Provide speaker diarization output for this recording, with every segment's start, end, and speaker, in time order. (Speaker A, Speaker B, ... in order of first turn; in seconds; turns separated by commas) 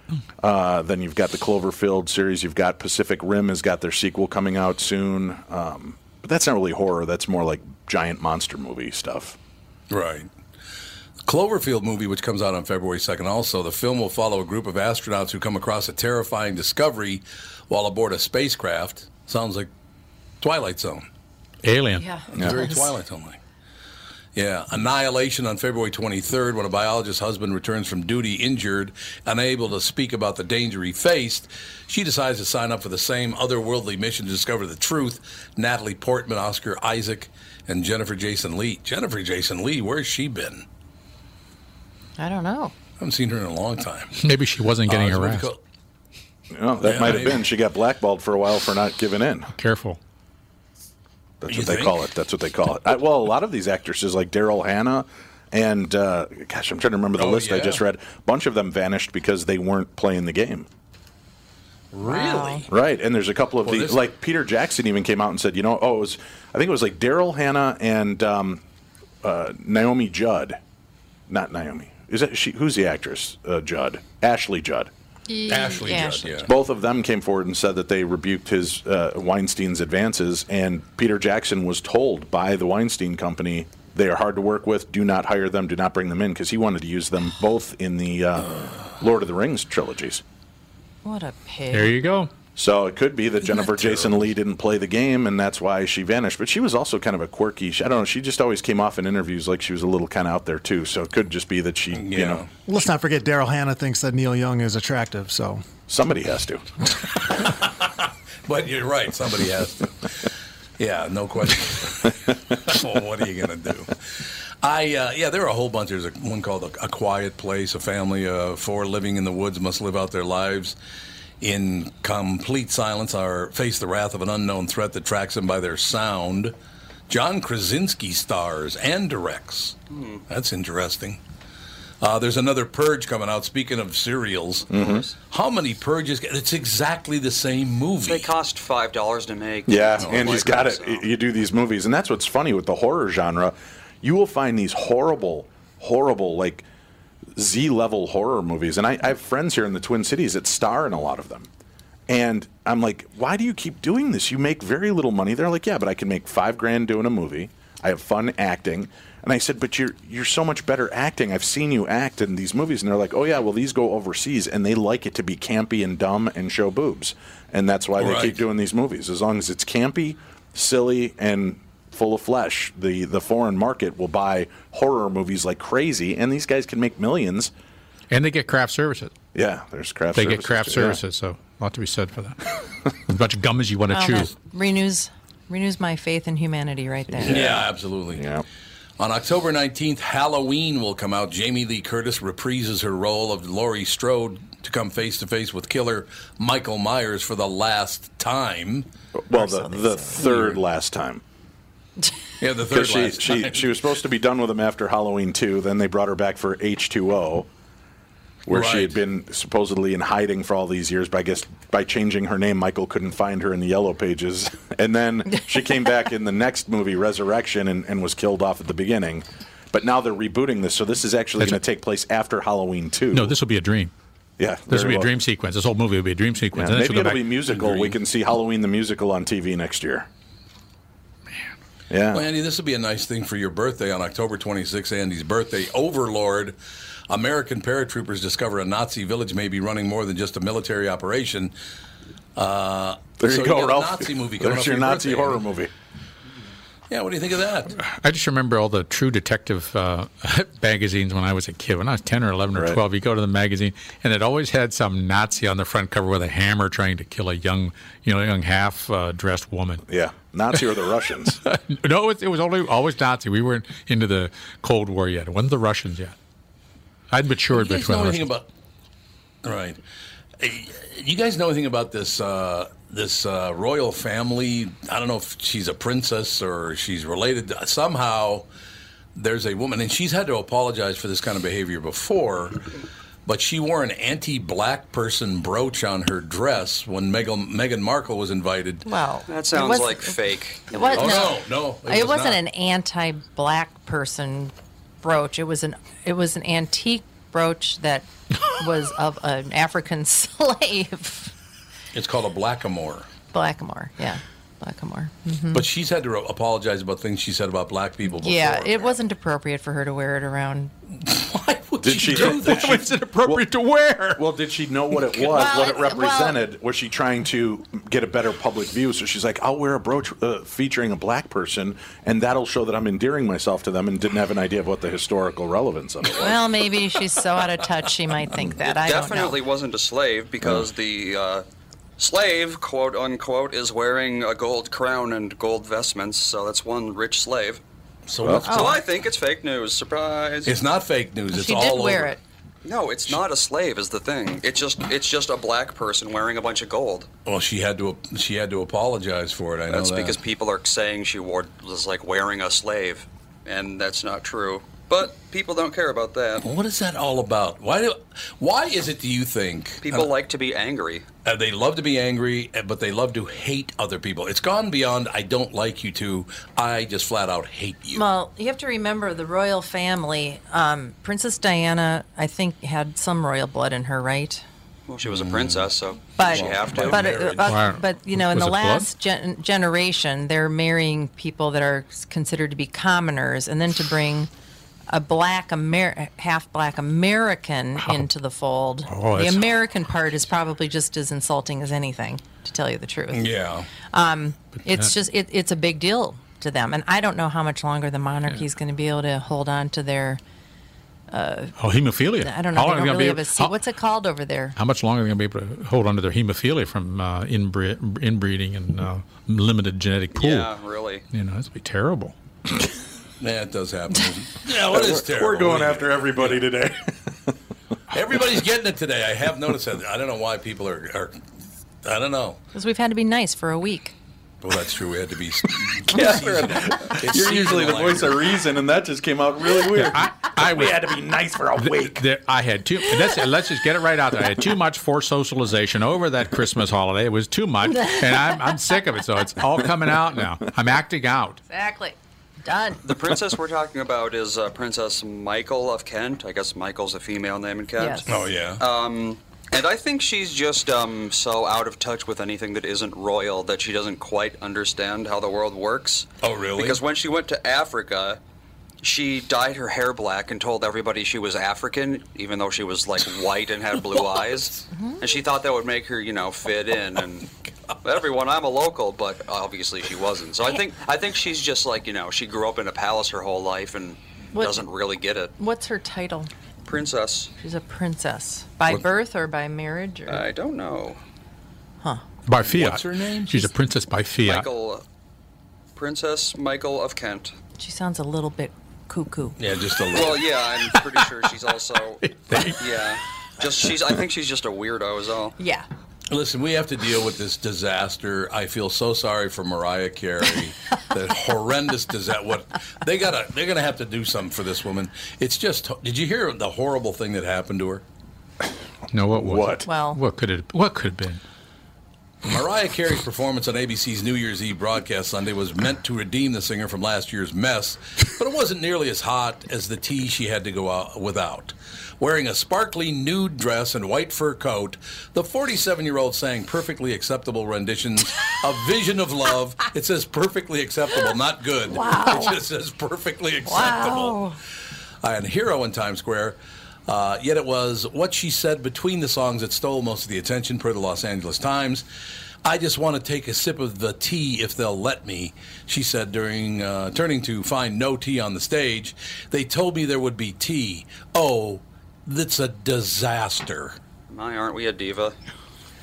Speaker A: 0.4-9.4, Speaker B: 9.9-10.3, Speaker B: 11.2-19.7, Speaker B: 20.4-21.1, Speaker C: 21.6-22.1, Speaker D: 22.0-22.9, Speaker B: 22.3-23.4, Speaker B: 24.4-40.7, Speaker D: 42.2-42.7, Speaker B: 43.0-44.4, Speaker C: 44.2-45.5, Speaker B: 44.9-45.6, Speaker A: 46.5-49.5, Speaker B: 46.8-47.5, Speaker C: 49.5-50.0, Speaker A: 51.4-60.7, Speaker B: 51.5-52.0, Speaker B: 57.2-57.8, Speaker B: 61.9-62.7, Speaker D: 62.1-62.6, Speaker A: 62.7-68.6, Speaker B: 63.6-64.0, Speaker A: 69.2-70.6, Speaker A: 71.3-74.9, Speaker D: 75.3-76.4, Speaker B: 75.5-76.5, Speaker A: 76.5-90.2, Speaker D: 91.0-92.0, Speaker C: 91.7-92.3, Speaker A: 92.6-102.5, Speaker B: 93.6-94.3, Speaker B: 101.9-102.5, Speaker E: 102.7-105.6, Speaker A: 105.9-106.7, Speaker B: 107.3-120.8, Speaker B: 121.4-126.5, Speaker B: 127.1-131.2, Speaker F: 129.9-130.2, Speaker B: 132.0-138.3, Speaker A: 134.7-135.1, Speaker F: 134.7-135.1, Speaker F: 138.1-141.1, Speaker A: 139.7-146.7, Speaker B: 140.0-140.6, Speaker A: 147.4-151.5, Speaker A: 152.1-177.5, Speaker B: 168.0-168.4, Speaker C: 178.1-179.1, Speaker A: 179.3-181.0, Speaker C: 180.2-182.4, Speaker C: 183.1-184.3, Speaker D: 183.9-187.5, Speaker A: 187.1-188.4, Speaker B: 187.2-188.3, Speaker B: 189.0-198.9, Speaker A: 199.2-201.2, Speaker B: 200.1-200.6, Speaker B: 202.4-203.8, Speaker A: 202.7-207.5, Speaker A: 208.5-223.3, Speaker B: 208.5-209.0, Speaker C: 223.1-223.9, Speaker A: 224.4-225.1, Speaker C: 224.7-227.3, Speaker A: 226.6-230.1, Speaker B: 227.5-227.9, Speaker A: 231.9-232.2, Speaker B: 232.1-236.6, Speaker B: 237.1-241.5, Speaker B: 242.4-245.4, Speaker A: 243.2-245.7, Speaker B: 246.9-247.8, Speaker C: 247.8-259.8, Speaker A: 252.6-252.8, Speaker A: 259.9-261.4, Speaker C: 261.4-266.1, Speaker C: 267.1-268.3, Speaker B: 267.5-268.5, Speaker B: 269.4-269.8, Speaker B: 270.4-278.5, Speaker B: 279.1-282.6, Speaker B: 283.3-288.9, Speaker D: 288.9-290.2, Speaker F: 289.3-291.3, Speaker D: 290.7-301.3, Speaker B: 290.9-292.4, Speaker B: 301.9-303.1, Speaker D: 303.3-305.6, Speaker B: 305.5-309.0, Speaker D: 308.1-310.7, Speaker B: 310.9-312.8, Speaker A: 311.8-313.4, Speaker C: 312.1-314.2, Speaker A: 314.2-326.3, Speaker D: 315.1-316.4, Speaker D: 326.2-329.4, Speaker F: 328.6-331.4, Speaker A: 330.4-330.7, Speaker F: 332.0-337.6, Speaker B: 338.1-338.7, Speaker A: 338.2-338.5, Speaker F: 338.4-340.6, Speaker D: 338.4-338.8, Speaker B: 340.4-342.1, Speaker D: 341.3-342.2, Speaker F: 342.6-347.1, Speaker B: 347.3-350.2, Speaker F: 349.7-356.4, Speaker B: 356.4-360.1, Speaker F: 359.8-361.1, Speaker B: 361.2-368.1, Speaker D: 367.9-374.4, Speaker F: 374.9-377.3, Speaker B: 375.0-377.5, Speaker D: 376.2-384.3, Speaker C: 377.4-378.9, Speaker D: 384.9-393.3, Speaker C: 387.8-388.1, Speaker C: 388.9-389.5, Speaker B: 393.1-393.7, Speaker D: 393.9-400.2, Speaker D: 401.1-401.6, Speaker C: 401.6-403.6, Speaker D: 402.2-404.6, Speaker C: 404.6-410.5, Speaker F: 410.1-411.1, Speaker C: 411.1-412.1, Speaker B: 413.2-416.4, Speaker A: 414.7-417.3, Speaker B: 417.9-421.2, Speaker B: 421.8-422.4, Speaker D: 422.5-423.9, Speaker B: 424.4-428.4, Speaker A: 425.9-432.0, Speaker C: 429.7-430.9, Speaker C: 431.6-441.4, Speaker D: 441.5-442.9, Speaker F: 442.8-458.2, Speaker D: 447.8-448.1, Speaker B: 448.1-448.6, Speaker B: 456.2-456.8, Speaker F: 458.8-467.3, Speaker D: 464.7-465.1, Speaker F: 467.8-475.3, Speaker D: 474.3-474.6, Speaker D: 475.4-476.3, Speaker F: 476.6-477.3, Speaker D: 477.4-480.3, Speaker F: 480.1-481.0, Speaker C: 482.3-484.5, Speaker B: 482.4-483.5, Speaker F: 484.2-484.8, Speaker F: 485.8-487.3, Speaker D: 487.6-489.4, Speaker B: 489.4-490.3, Speaker F: 489.9-495.4, Speaker C: 492.0-492.7, Speaker D: 495.4-495.7, Speaker B: 496.1-507.8, Speaker C: 508.9-511.2, Speaker A: 509.1-509.6, Speaker D: 509.6-510.0, Speaker B: 512.2-534.3, Speaker D: 531.7-532.4, Speaker D: 533.5-534.4, Speaker B: 535.0-541.9, Speaker B: 542.4-553.8, Speaker F: 554.1-555.2